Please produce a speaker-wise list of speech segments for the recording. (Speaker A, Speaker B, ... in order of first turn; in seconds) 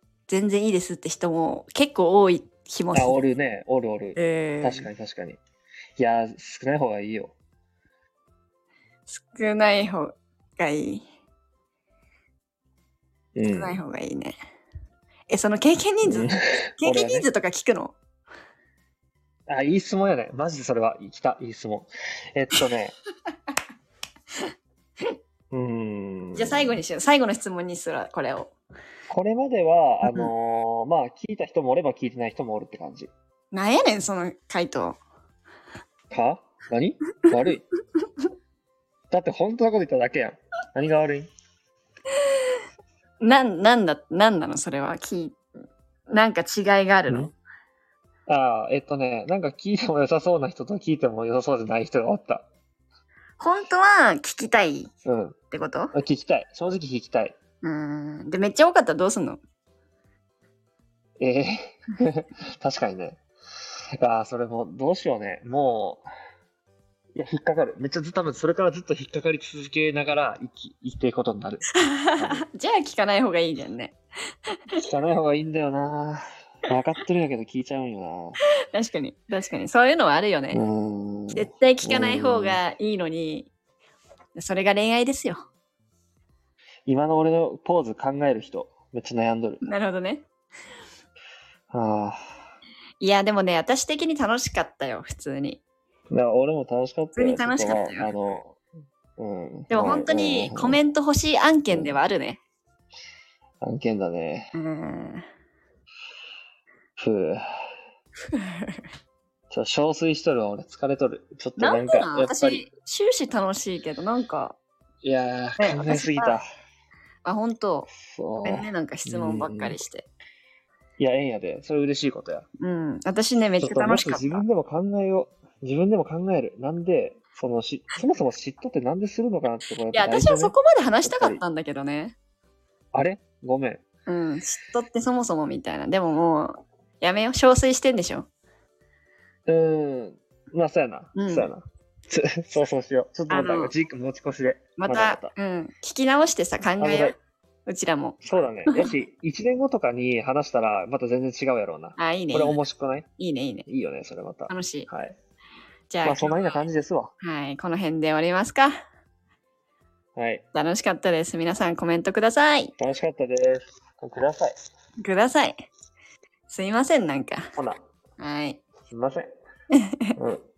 Speaker A: 0.3-3.2, 4.2-4.9, 9.1-11.0, 13.5-14.3, 15.3-17.9, 26.4-28.5, 33.5-35.0, 43.2-45.4, 46.1-47.3, 53.4-54.9, 55.5-56.0, 57.6-59.4, 71.7-74.0, 78.7-80.6, 81.3-83.5, 84.3-85.5, 89.6-90.2, 93.0-95.6, 97.1-98.1, 99.7-102.4, 104.5-105.3, 108.3-108.8, 111.6-114.6, 115.6-116.4, 117.2-117.9, 118.4-120.1, 122.6-124.5, 129.9-132.2, 134.1-138.3, 141.2-141.5, 143.3-143.7, 144.8-148.9, 152.0-152.6, 153.2-153.7, 154.5-154.9, 155.9-156.3, 157.2-158.8, 160.5-162.7, 165.0-165.7, 166.5-167.5, 168.2-168.6, 169.8-170.1
Speaker B: 2.9-5.4, 6.0-7.3, 13.3-13.8, 16.1-17.3, 19.5-22.9, 25.5-26.8, 29.1-33.1, 36.1-37.6, 39.1-41.3, 48.3-52.5, 55.0-55.4, 55.9-57.4, 61.2-63.2, 63.9-66.0, 67.2-72.5, 74.8-78.4, 80.5-82.6, 86.9-89.6, 91.7-92.2, 96.1-98.6, 99.2-100.8, 101.7-102.0, 103.6-104.5, 107.0-107.4, 109.5-112.7, 115.0-116.5, 118.0-119.8, 121.0-122.5, 123.6-131.4, 132.9-133.8, 139.5-145.3, 146.8-147.2, 148.2-153.1, 153.7-155.2, 156.0-157.1, 160.2-160.4, 162.8-164.5, 168.9-169.3, 170.2-170.4